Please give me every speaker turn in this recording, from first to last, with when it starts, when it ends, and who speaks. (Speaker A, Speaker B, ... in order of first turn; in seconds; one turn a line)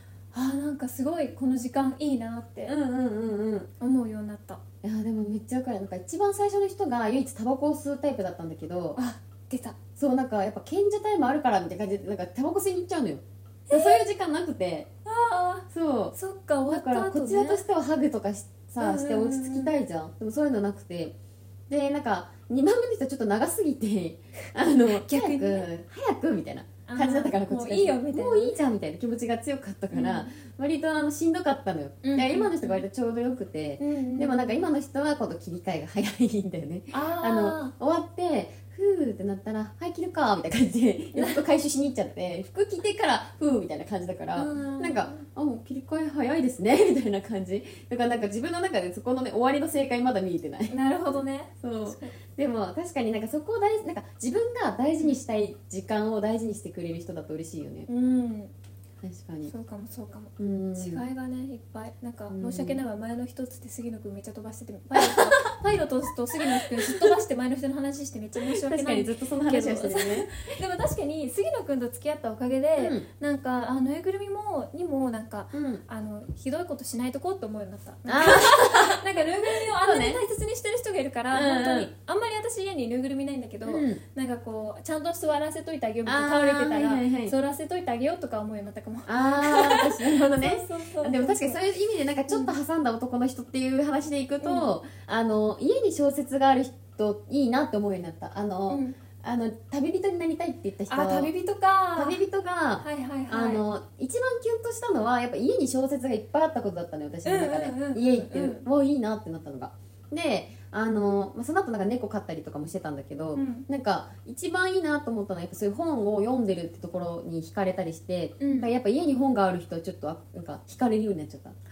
Speaker A: 0.3-2.7
Speaker B: 2.6-3.7
Speaker A: 3.8-4.6
Speaker B: 4.8-9.0
Speaker A: 8.9-9.8
Speaker B: 10.0-14.9
Speaker A: 13.7-14.1
Speaker A: 15.1-17.6
Speaker B: 15.7-16.1
Speaker B: 16.7-21.1
Speaker A: 18.8-19.7
Speaker B: 21.7-50.7
Speaker A: 24.8-25.7
Speaker A: 26.9-28.6
Speaker A: 29.9-30.3
Speaker A: 32.0-32.8
Speaker A: 33.8-34.6
Speaker A: 36.9-37.7
Speaker A: 41.1-41.4
Speaker A: 44.3-45.2
Speaker A: 50.7-52.1
Speaker B: 51.6-57.9
Speaker A: 57.9-58.5
Speaker B: 59.0-59.5
Speaker A: 59.5-91.6
Speaker B: 60.4-61.0
Speaker B: 62.3-62.8
Speaker B: 65.0-65.5
Speaker B: 66.4-67.2
Speaker B: 68.4-70.5
Speaker B: 72.8-73.0
Speaker B: 75.5-75.8
Speaker B: 78.1-80.2
Speaker B: 81.3-81.9
Speaker B: 83.6-84.0
Speaker B: 86.0-87.3
Speaker B: 89.0-101.3
Speaker A: 92.3-92.5
Speaker A: 94.4-94.7
Speaker A: 98.7-99.0
Speaker A: 100.9-102.2
Speaker B: 102.0-121.5
Speaker A: 102.8-103.6
Speaker A: 107.2-108.7
Speaker A: 113.3-113.7
Speaker A: 118.4-118.7